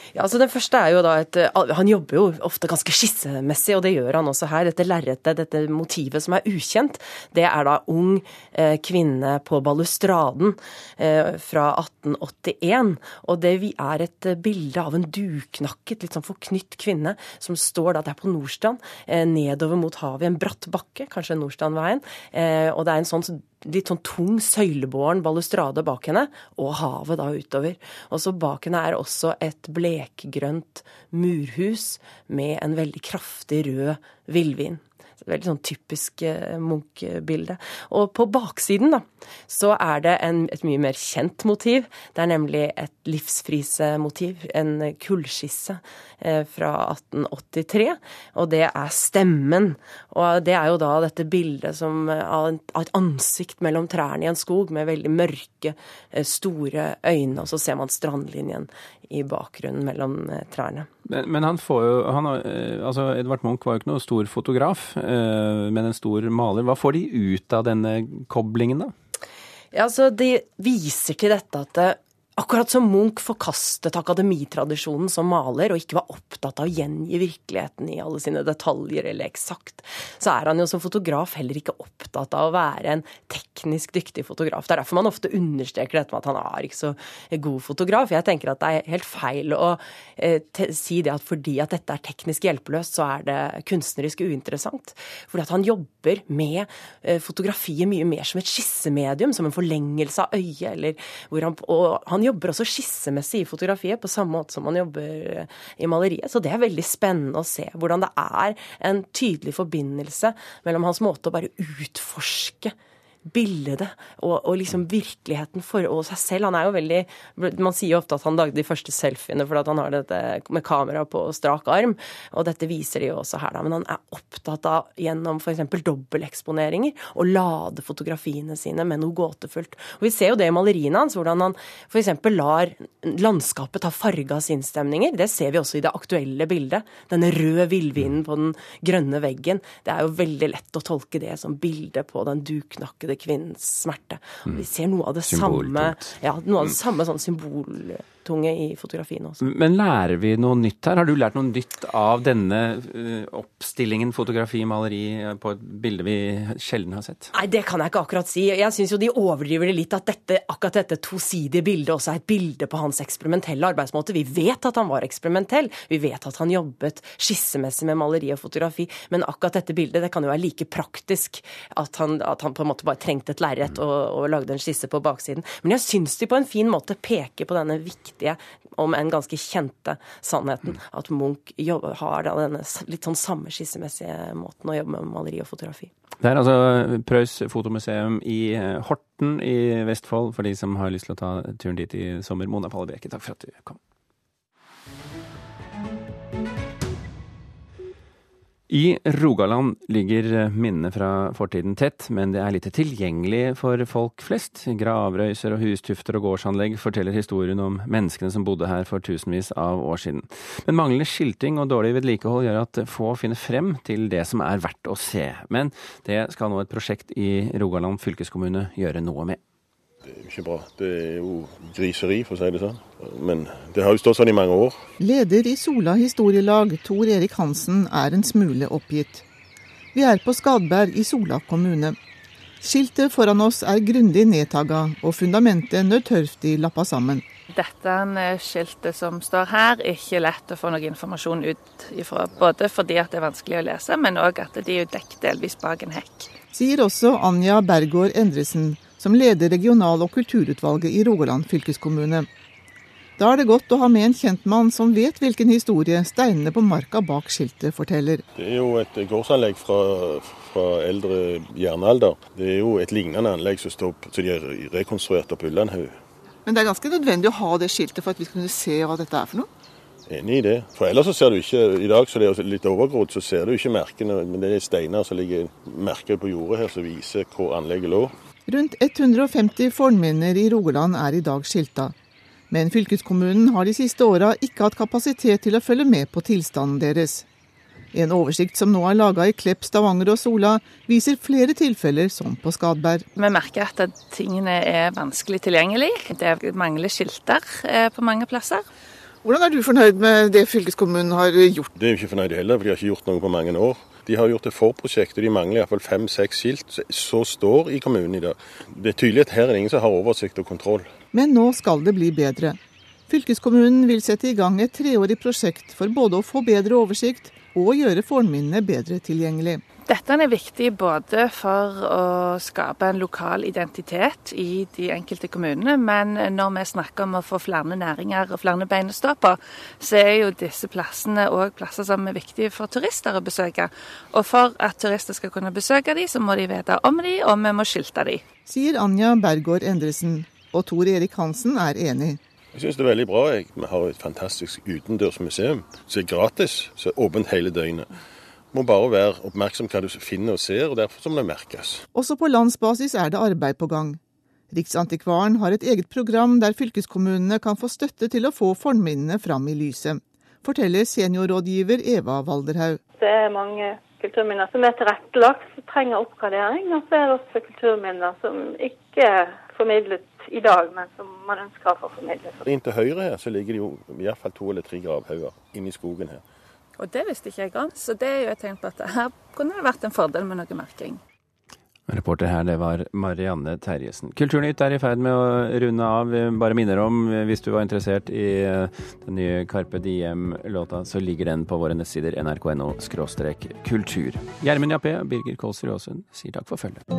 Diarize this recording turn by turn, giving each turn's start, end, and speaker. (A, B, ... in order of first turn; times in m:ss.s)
0:00.1-1:00.9 A
1:01.1-1:08.9 B
1:09.7-1:52.7 A
1:53.2-2:29.4 A
2:25.3-2:26.2 B
2:29.4-2:37.3 B
2:37.3-3:05.9 A
3:06.2-3:13.8 B
3:18.7-3:39.4 B
3:40.0-3:44.8 C
3:45.0-3:49.2 D
3:49.9-3:52.0 D
3:52.6-3:57.2 D
3:57.5-4:06.3 E
4:06.5-4:12.3 D
4:13.2-4:18.2 D
4:18.4-4:26.0 C
4:26.4-4:29.5 D
4:30.1-4:38.1 C
4:38.5-4:41.9 D
4:42.5-4:47.2 D
4:47.9-4:53.0 D
4:53.1-4:58.7 E
4:59.2-5:01.7 D
5:01.8-5:10.9 C
5:11.1-5:12.6 D
5:13.1-5:19.6 D
5:19.8-5:38.2 E
5:38.4-5:42.2 D
5:42.5-5:47.9 C
5:48.5-5:51.8 C
5:51.9-5:54.0 D
5:54.5-6:02.8 D
6:03.0-6:12.4 F
6:12.4-6:16.2 C
6:16.8-6:21.0 E
6:21.9-6:36.8 B